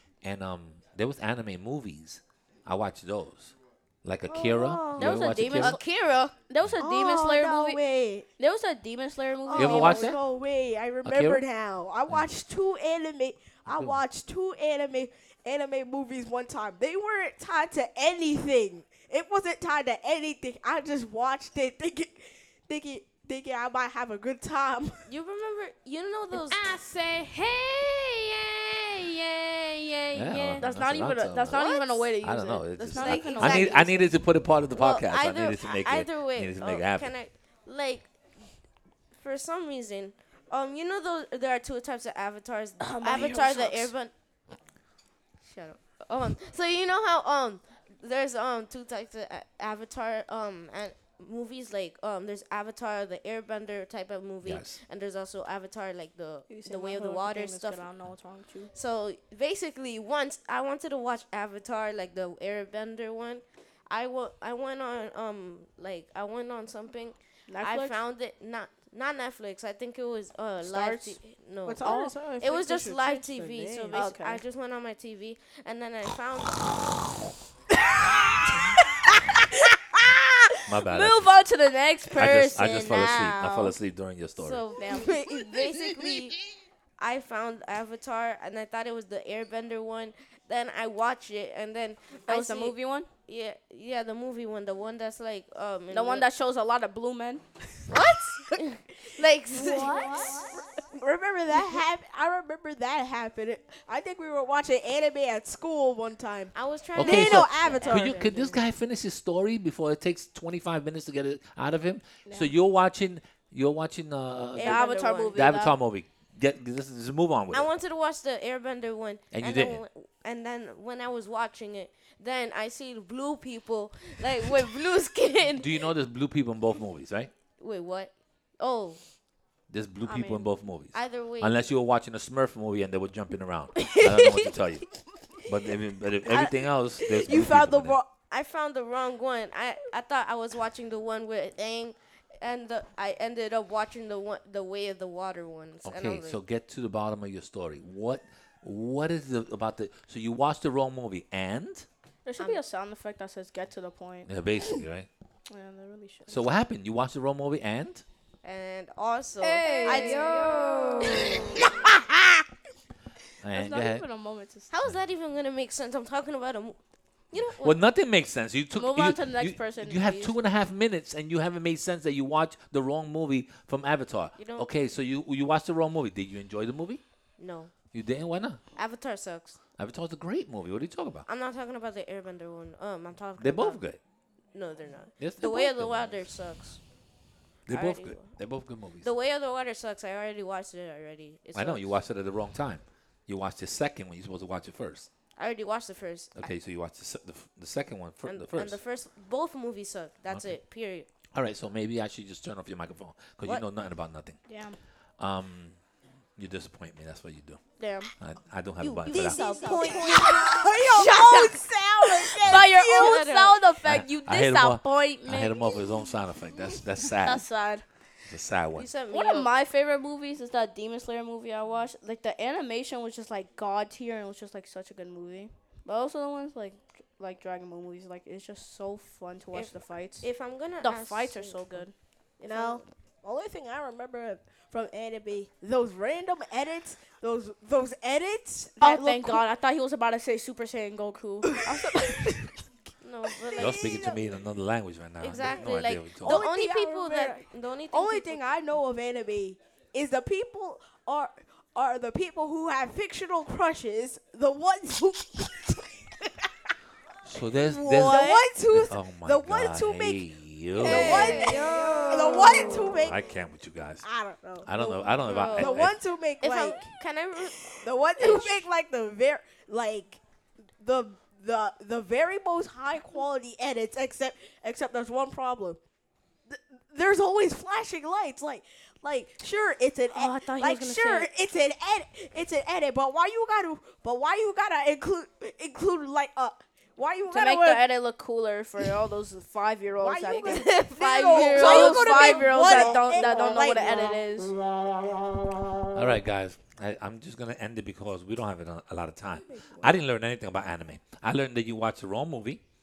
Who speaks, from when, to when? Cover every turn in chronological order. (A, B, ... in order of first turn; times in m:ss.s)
0:00.2-0:05.8 A
0:04.3-0:05.1 B
0:04.9-0:05.8 C
0:05.6-0:06.4 D
0:06.5-0:07.8 C
0:06.8-0:08.3 B
0:08.4-0:10.1 C
0:09.5-0:25.1 B
0:09.6-0:10.2 A
0:11.0-0:11.4 A
0:13.7-0:14.0 A
0:25.1-0:26.8 D
0:26.3-0:34.1 C
0:30.1-0:37.1 A
0:31.6-0:32.0 D
0:33.0-0:34.1 D
0:34.7-0:38.1 D
0:39.2-0:44.1 D
0:42.8-0:43.9 C
0:45.4-0:57.9 D
0:54.4-0:54.8 A
0:56.5-0:58.7 C
0:58.7-1:11.9 D
1:07.5-1:08.0 C
1:10.6-1:11.2 C
1:11.6-1:14.2 B
1:11.8-1:12.2 C
1:12.4-1:16.8 D
1:13.9-1:14.4 C
1:18.0-1:18.8 B
1:20.0-1:20.6 B
1:20.7-1:21.3 A
1:20.9-1:23.8 C
1:22.2-1:24.6 A
1:22.4-1:23.2 D
1:24.4-1:26.4 D
1:24.8-1:25.1 C
1:24.9-1:25.6 B
1:27.0-1:32.8 D
1:32.3-1:33.1 C
1:33.3-1:36.2 D
1:35.9-1:37.9 C
1:37.9-1:40.5 D
1:39.6-1:48.5 B
1:39.7-1:40.5 C
1:46.5-1:48.6 D
1:47.0-1:57.7 A
1:52.2-1:52.5 C
1:54.6-1:55.4 D
1:54.6-1:55.8 C
1:57.5-2:05.9 D
1:59.3-1:59.8 A
2:05.6-2:07.3 A
2:07.6-2:09.0 D
2:09.7-2:14.9 A
2:10.0-2:10.5 C
2:10.9-2:11.6 D
2:14.1-2:14.4 B
2:15.4-2:18.0 A
2:16.3-2:18.1 B
2:18.3-2:26.4 D
2:25.8-2:31.9 A
2:32.2-2:34.3 C
2:34.3-2:35.1 A
2:35.5-2:36.5 C
2:36.3-2:38.0 A
2:38.4-2:41.7 D
2:39.4-2:41.7 C
2:39.9-2:40.3 B
2:41.2-2:42.2 B
2:43.4-2:44.0 A
2:43.5-2:44.7 C
2:44.7-2:46.8 D
2:47.3-2:47.8 D
2:47.6-2:57.0 A
2:48.7-2:50.4 C
2:54.4-2:54.8 D
2:57.4-2:57.7 D
2:57.9-2:58.6 A
2:58.8-2:59.6 D
2:59.8-3:01.2 A
3:01.2-3:03.8 D
3:03.4-3:04.0 A
3:04.5-3:06.8 D
3:05.2-3:06.3 A
3:07.7-3:09.1 A
3:07.7-3:08.4 D
3:09.0-3:11.9 D
3:11.6-3:15.1 A
3:15.4-3:16.5 D
3:16.4-3:18.8 A
3:18.2-3:21.1 D
3:21.3-3:24.4 A
3:24.5-3:24.8 C
3:25.2-3:25.8 A
3:26.4-3:27.6 A
3:27.8-3:28.1 C
3:28.2-3:29.5 A
3:29.1-3:31.6 C
3:29.1-3:33.2 B
3:29.4-3:31.0 D
3:32.2-3:35.6 C
3:32.4-3:33.6 D
3:33.8-3:37.5 A
3:37.2-3:37.8 C
3:38.3-3:38.9 A
3:38.8-3:39.5 D
3:39.1-3:50.3 C
3:49.5-3:51.9 D
3:50.8-3:51.9 C
3:52.4-3:59.4 B
3:52.5-3:52.8 D
3:58.8-4:02.7 C
4:03.0-4:04.2 D
4:03.5-4:04.3 B
4:03.6-4:06.4 A
4:05.2-4:08.4 D
4:06.2-4:16.2 B
4:17.2-4:21.4 A
4:17.6-4:20.2 B
4:18.1-4:18.5 D
4:20.8-4:23.2 B
4:20.9-4:22.7 C
4:20.9-4:21.4 D
4:23.0-4:24.1 A
4:24.0-4:26.9 B
4:24.6-4:26.0 A
4:25.2-4:25.8 D
4:26.4-4:28.6 D
4:27.7-4:30.2 B
4:30.8-4:35.8 B
4:36.5-4:47.9 B
4:40.1-4:41.3 C
4:47.3-4:54.6 C
4:50.0-4:54.1 B
4:51.8-4:53.2 D
4:55.9-5:02.6 A
4:59.5-4:59.9 B